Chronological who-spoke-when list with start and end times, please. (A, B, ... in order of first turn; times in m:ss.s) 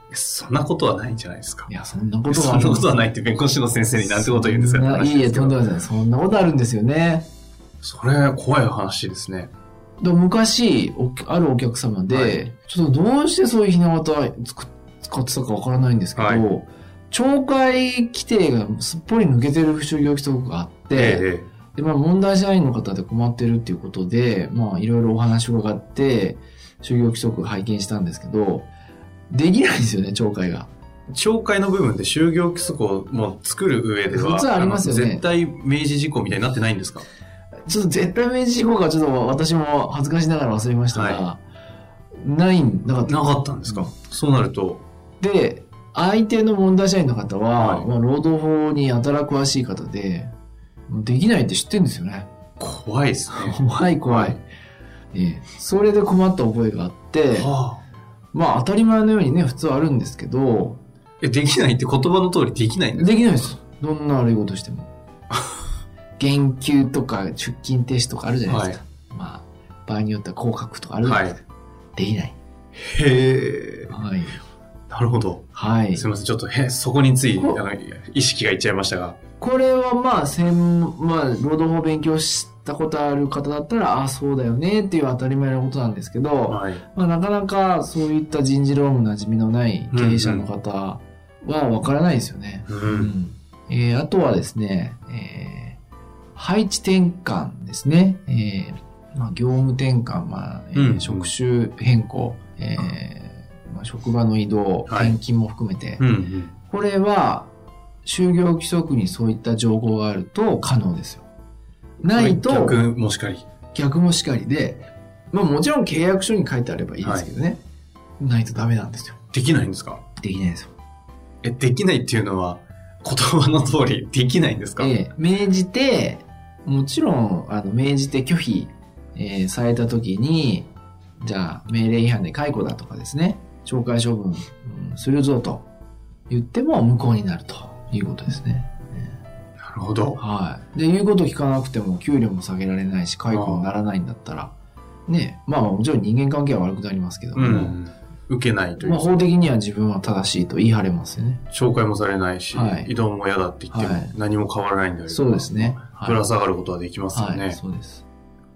0:00.1-0:01.7 A
0:01.7-0:02.9 B
0:02.3-0:05.6 A
0:04.0-0:07.3 B
0:07.8-0:09.5 A
0:10.0-0:28.7 B
0:12.1-0:12.4 A
0:16.1-0:16.4 A
0:20.9-0:21.5 A
0:29.3-0:30.7 B
0:31.1-0:37.0 A
0:34.1-0:35.2 B
0:37.7-0:41.4 B
0:40.9-0:41.2 A
0:42.2-0:43.9 B
0:43.0-0:44.8 A
0:45.2-0:50.3 B
0:47.5-0:47.9 A
0:50.9-0:52.3 B
0:52.6-0:54.4 A
0:53.3-0:54.4 B
0:55.1-0:57.5 B
0:57.3-0:57.8 A
0:58.3-1:00.8 B
1:01.2-1:03.2 A
1:02.9-1:04.9 B
1:06.2-1:11.4 B
1:08.5-1:08.8 A
1:11.0-1:11.4 A
1:11.9-1:12.4 B
1:12.8-1:13.9 A
1:13.9-1:14.4 B
1:14.9-1:19.2 A
1:15.5-1:16.1 B
1:17.4-1:17.6 B
1:19.4-1:35.8 B
1:26.5-1:26.8 A
1:29.9-1:30.5 A
1:32.7-1:33.1 A
1:36.3-1:46.0 B
1:40.7-1:41.3 A
1:44.8-1:45.2 A
1:46.0-1:46.5 A
1:46.7-1:47.5 B
1:48.0-1:51.2 B
1:52.0-1:52.8 B
1:52.1-1:53.4 A
1:53.7-1:57.6 B
1:57.0-1:57.3 A
1:58.2-1:59.2 B
1:59.3-2:00.0 A
2:00.2-2:00.7 B
2:01.4-2:04.9 A
2:04.8-2:10.7 B
2:11.2-2:15.6 B
2:16.3-2:19.2 B
2:19.6-2:20.2 A
2:20.2-2:24.5 B
2:23.3-2:23.7 A
2:25.1-2:27.8 B
2:27.3-2:29.2 A
2:28.8-2:31.4 B
2:31.5-2:37.6 A
2:32.5-2:32.9 B
2:33.7-2:34.1 B
2:35.1-2:36.2 B
2:37.1-2:38.0 B